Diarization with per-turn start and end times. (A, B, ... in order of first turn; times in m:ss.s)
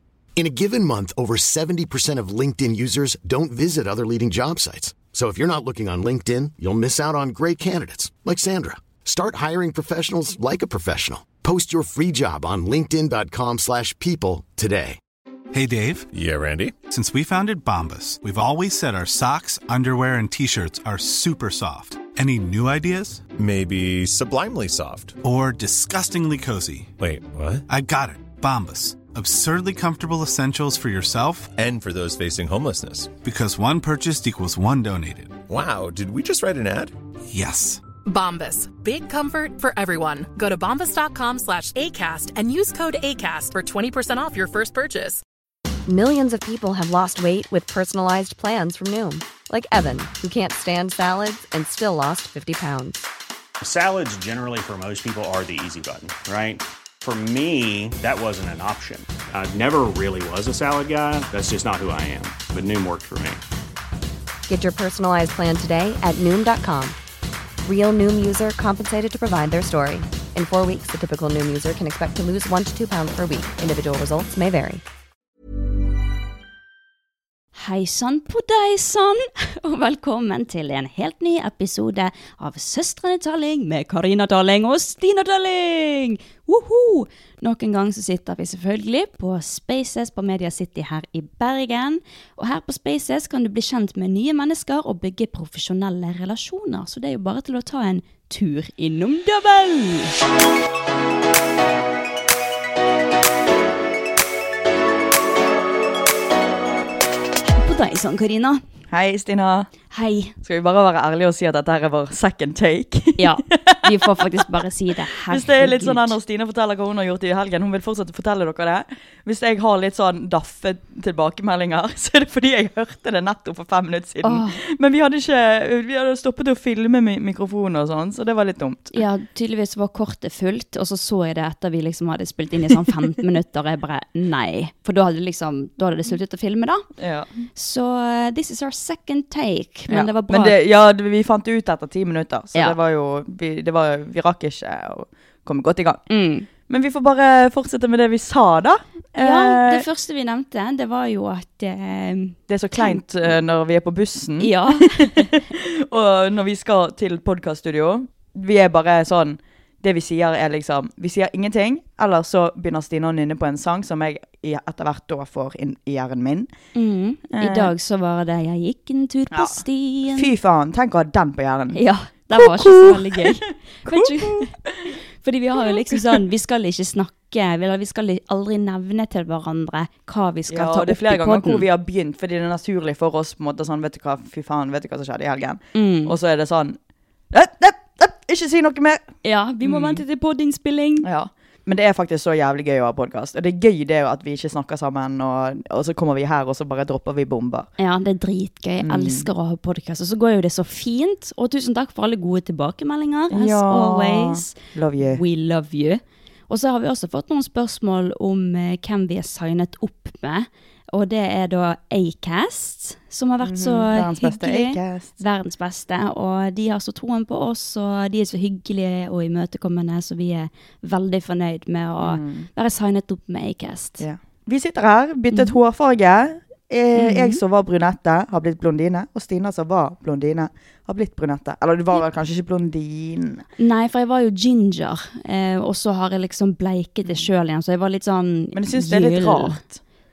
0:00.4-0:15.0 A
0:15.5-0:16.1 B
0:16.1-0:16.8 C
0:16.9-0:23.2 B
0:23.4-0:25.2 C
0:25.2-0:26.9 B
0:27.0-0:27.6 C
0:27.7-0:31.5 B
0:31.6-0:33.2 C
0:33.2-0:35.4 B
0:35.5-0:36.9 C
0:37.3-0:37.8 B
0:38.0-0:45.2 D
0:45.9-0:53.1 E
0:53.6-1:03.4 F
1:04.5-1:07.0 E
1:07.6-1:14.8 E
1:17.5-1:40.2 G
1:47.6-1:48.6 G
1:48.9-1:49.7 H
1:49.9-1:50.3 G
1:50.4-1:54.4 H
1:53.2-1:56.2 G
1:55.2-2:09.0 H
2:04.2-2:04.6 G
2:08.9-2:16.9 G
2:17.0-2:17.5 H
2:17.5-2:20.5 G
2:19.9-2:26.0 H
2:26.1-2:26.5 G
2:26.7-2:29.8 H
2:29.2-2:33.0 G
2:32.5-2:46.5 H
2:34.4-2:35.3 G
2:46.7-2:50.3 G
2:47.3-2:47.7 H
2:49.3-2:51.8 H
2:51.7-2:54.5 G
2:52.3-2:53.3 H
2:53.8-2:54.9 H
2:55.2-3:01.6 G
2:55.6-2:56.2 H
3:00.5-3:06.8 H
3:05.7-3:06.1 G
3:07.3-3:09.0 H
3:09.2-3:11.0 G
3:09.6-3:10.0 H
3:11.0-3:17.7 H
3:17.8-3:44.0 G
3:18.8-3:19.3 H
3:23.3-3:25.2 H
3:33.4-3:35.2 H
3:42.0-3:42.5 H
3:44.0-3:53.4 H
3:47.0-3:47.4 G
3:53.6-3:59.6 G
3:58.5-3:59.8 H